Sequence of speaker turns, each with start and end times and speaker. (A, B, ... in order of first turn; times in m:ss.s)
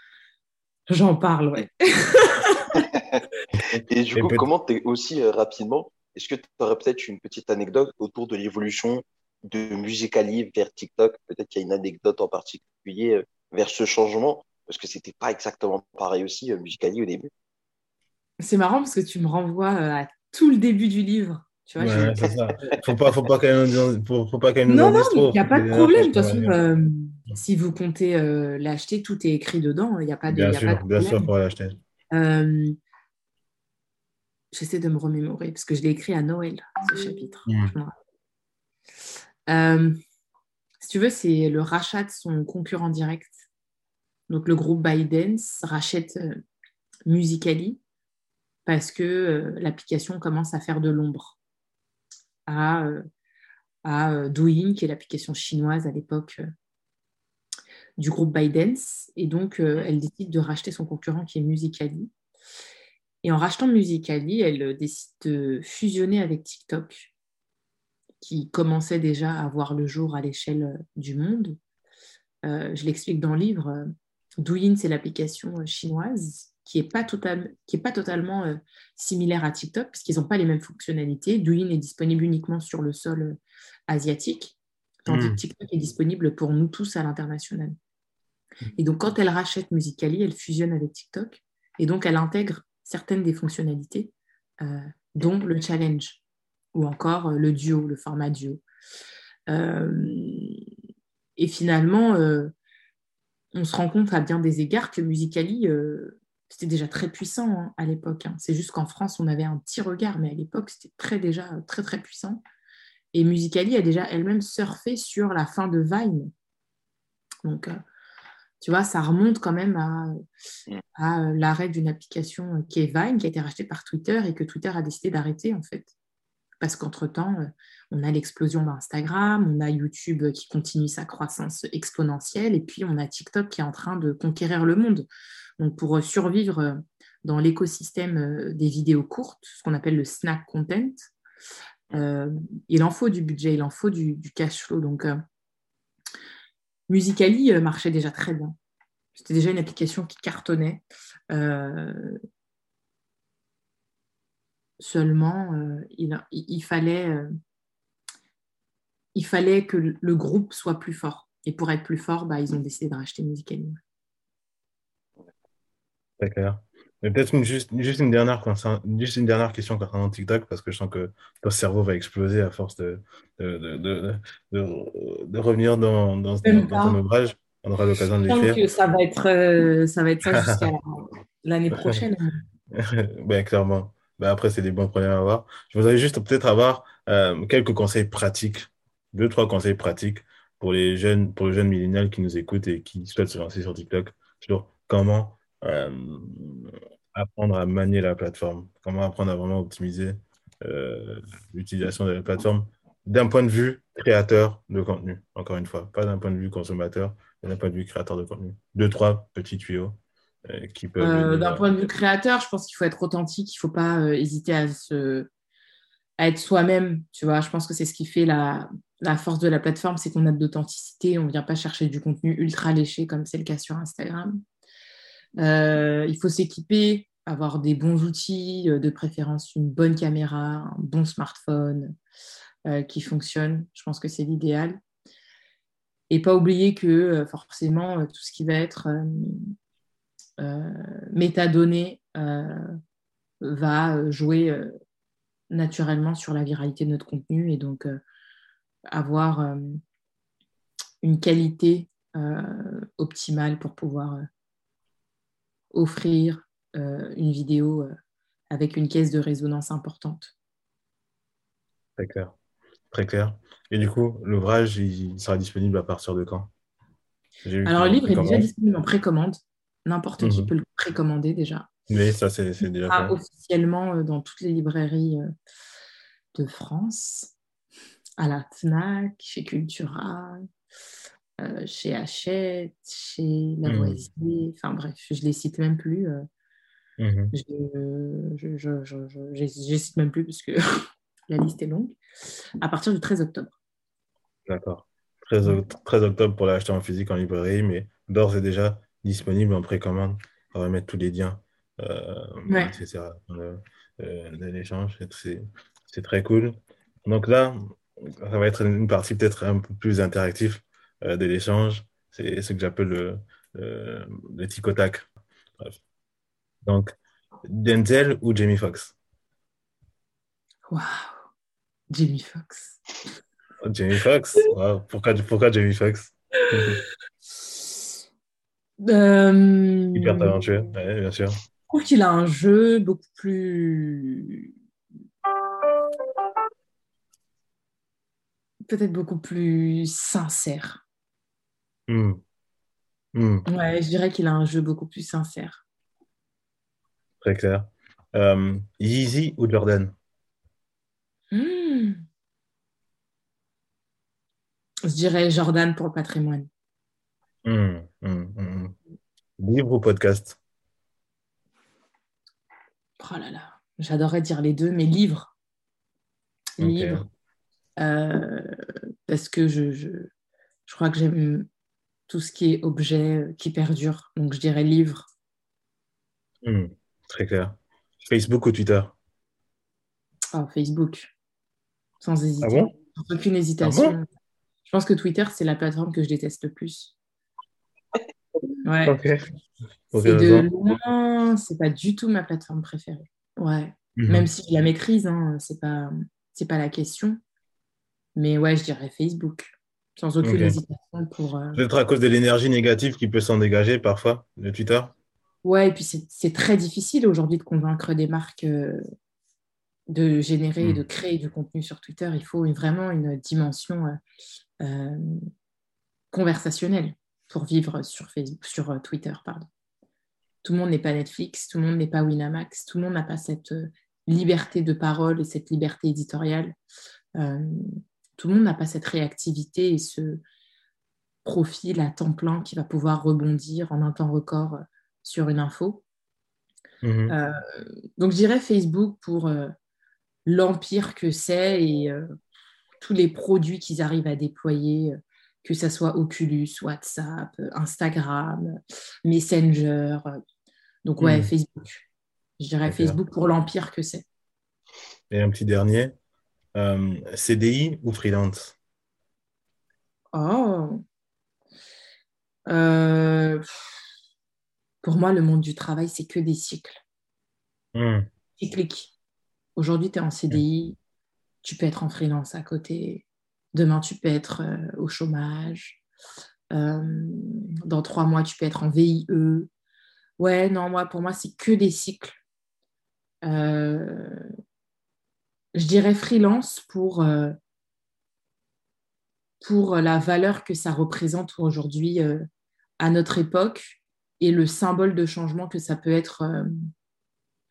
0:00.9-0:02.8 A
0:02.7-0:03.2 B
0:03.5-0:04.4 C
0:03.8-0:17.3 B
0:18.4-0:22.8 A
0:21.8-0:26.5 C
0:24.7-0:31.3 A
0:30.3-0:31.8 C
0:32.1-0:32.8 A
0:34.5-0:37.9 A
0:37.5-0:37.7 C
0:39.5-0:40.0 A
0:40.8-0:43.4 A
0:44.3-0:46.4 A
0:47.0-0:47.8 A
0:48.6-0:51.4 A
0:52.5-0:53.0 A
0:53.8-0:56.4 A
0:58.0-1:02.1 A
1:03.2-1:07.1 A
1:08.2-1:11.6 A
1:12.4-1:13.8 A
1:14.4-1:27.8 A
1:25.1-1:25.4 C
1:28.8-1:36.2 A
1:36.7-1:38.6 A
1:39.5-1:40.6 A
1:41.4-1:42.5 A
1:43.5-1:52.4 A
1:53.1-1:56.3 A
1:57.4-1:57.8 A
1:58.6-2:00.2 A
2:01.0-2:05.9 A
2:06.6-2:15.1 A
2:15.6-2:21.1 A
2:21.9-2:25.2 A
2:26.9-2:28.6 A
2:29.1-2:32.2 A
2:34.8-2:37.3 A
2:39.1-2:43.8 A
2:46.2-2:58.6 C
2:56.4-2:57.0 A
2:58.3-3:02.4 A
3:00.3-3:00.7 C
3:01.7-3:02.0 C
3:02.7-3:31.8 C
3:31.0-3:35.3 A
3:36.2-3:44.4 A
3:45.4-3:51.9 A
3:52.6-3:54.8 A
3:56.1-3:59.5 A
4:00.4-4:02.8 A
4:03.4-4:04.7 A
4:05.5-4:08.0 A
4:08.9-4:09.8 A
4:11.0-4:14.2 A
4:15.7-4:17.9 A
4:18.5-4:20.3 A
4:22.0-4:22.3 C
4:22.9-4:26.5 C
4:27.4-4:28.5 C
4:27.6-4:31.7 A
4:30.2-4:30.5 C
4:31.9-4:33.2 C
4:32.6-4:35.3 A
4:36.3-4:37.3 A
4:38.2-4:40.4 A
4:41.4-4:46.2 A
4:43.6-4:44.0 C
4:47.0-4:47.3 C
4:47.3-4:52.0 A
4:52.6-4:53.6 A
4:54.5-5:15.8 C
5:02.5-5:02.7 A
5:16.6-5:16.9 C
5:17.4-5:18.9 C
5:20.7-5:21.2 A
5:21.9-5:22.8 A
5:23.6-5:26.8 C
5:28.8-5:30.4 A
5:29.9-5:31.4 C
5:31.7-5:34.5 A
5:38.7-5:40.8 A
5:41.9-5:42.2 C
5:43.1-5:43.4 C
5:43.5-5:45.6 A
5:47.2-5:49.9 C
5:51.3-5:52.0 A
5:54.8-5:56.5 A
5:57.4-5:58.8 C
5:59.4-6:00.4 C
6:03.0-6:05.3 A
6:06.6-6:07.0 A
6:06.6-6:07.0 C
6:07.8-6:10.1 A
6:10.6-6:11.5 A
6:12.1-6:15.1 A
6:16.4-6:19.0 C
6:20.3-6:21.1 A
6:22.0-6:24.0 A
6:22.4-6:22.7 C
6:23.6-6:24.0 C
6:24.6-6:26.9 A
6:28.6-6:29.0 A
6:28.8-6:29.2 C
6:29.9-6:30.5 C
6:30.0-6:37.2 A
6:34.0-6:34.3 C
6:38.2-6:41.6 A
6:40.2-6:40.6 C
6:41.5-6:44.9 C
6:45.4-6:48.8 A
6:49.9-6:54.0 A
6:54.6-6:55.2 A
6:56.1-6:59.5 A
7:00.4-7:06.5 A
7:07.2-7:10.2 A
7:11.2-7:15.8 A
7:16.8-7:17.1 C
7:17.1-7:19.5 A
7:20.2-7:22.1 A
7:22.8-7:30.2 A
7:30.8-7:31.8 A
7:31.0-7:31.3 C
7:32.4-7:34.0 A
7:32.6-7:33.0 C
7:35.1-7:35.9 C
7:36.5-7:38.6 C
7:40.1-7:40.8 A
7:42.5-7:43.4 A
7:44.8-7:46.8 A
7:47.7-7:48.1 C
7:48.4-7:48.9 A
7:49.6-7:50.8 A
7:51.4-7:55.8 A
7:56.5-7:59.5 A
8:00.2-8:02.2 A
8:03.2-8:04.2 A
8:05.5-8:07.3 A
8:09.4-8:12.2 A
8:12.8-8:16.5 A